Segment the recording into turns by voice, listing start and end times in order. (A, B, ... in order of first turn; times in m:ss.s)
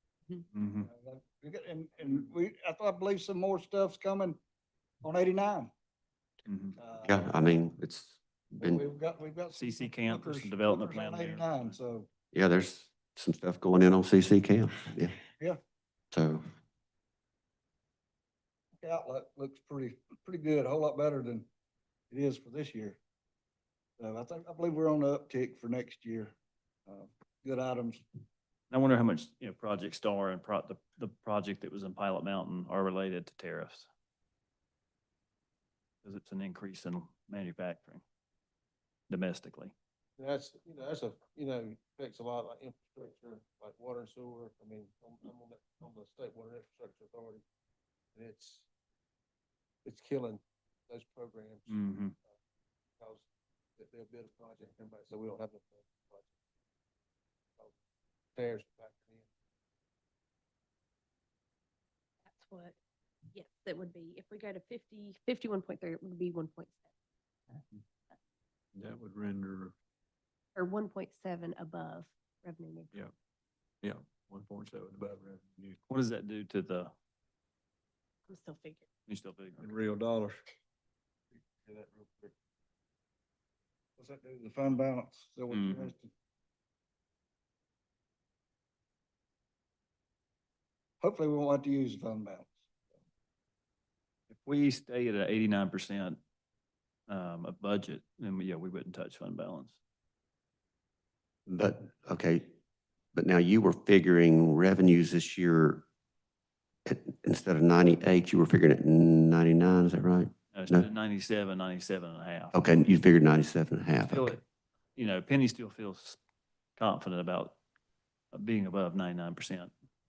0:00.5-0:00.9 A
0:00.8-0:04.4 B
0:05.0-0:05.7 B
0:06.5-0:06.8 A
0:06.8-0:07.2 B
0:07.0-0:08.8 C
0:08.6-0:12.1 B
0:09.6-0:11.8 A
0:12.3-0:15.2 C
0:16.1-0:16.5 C
0:18.8-0:21.5 B
0:22.1-0:23.0 B
0:24.0-0:26.3 B
0:26.9-0:28.0 B
0:28.7-0:33.9 A
0:36.0-0:38.0 A
0:39.1-0:39.7 A
0:40.2-0:47.4 D
0:48.2-0:48.7 D
0:49.8-0:51.6 D
0:51.7-0:52.2 A
0:53.8-0:56.2 D
0:58.4-0:59.2 D
1:02.2-1:02.8 E
1:03.3-1:06.9 E
1:08.7-1:09.7 F
1:10.6-1:12.9 E
1:13.8-1:15.8 F
1:15.9-1:16.9 A
1:18.3-1:18.9 E
1:19.1-1:19.7 A
1:19.6-1:20.4 F
1:24.0-1:26.1 B
1:25.5-1:25.9 A
1:31.0-1:32.6 B
1:34.3-1:36.2 A
1:37.1-1:39.8 A
1:41.5-1:42.5 C
1:43.2-1:45.8 C
1:46.9-1:50.8 C
1:50.5-1:52.6 A
1:52.5-1:54.4 C
1:54.0-1:54.4 A
1:55.0-1:56.2 A
1:56.8-1:57.6 A
1:58.3-1:59.7 A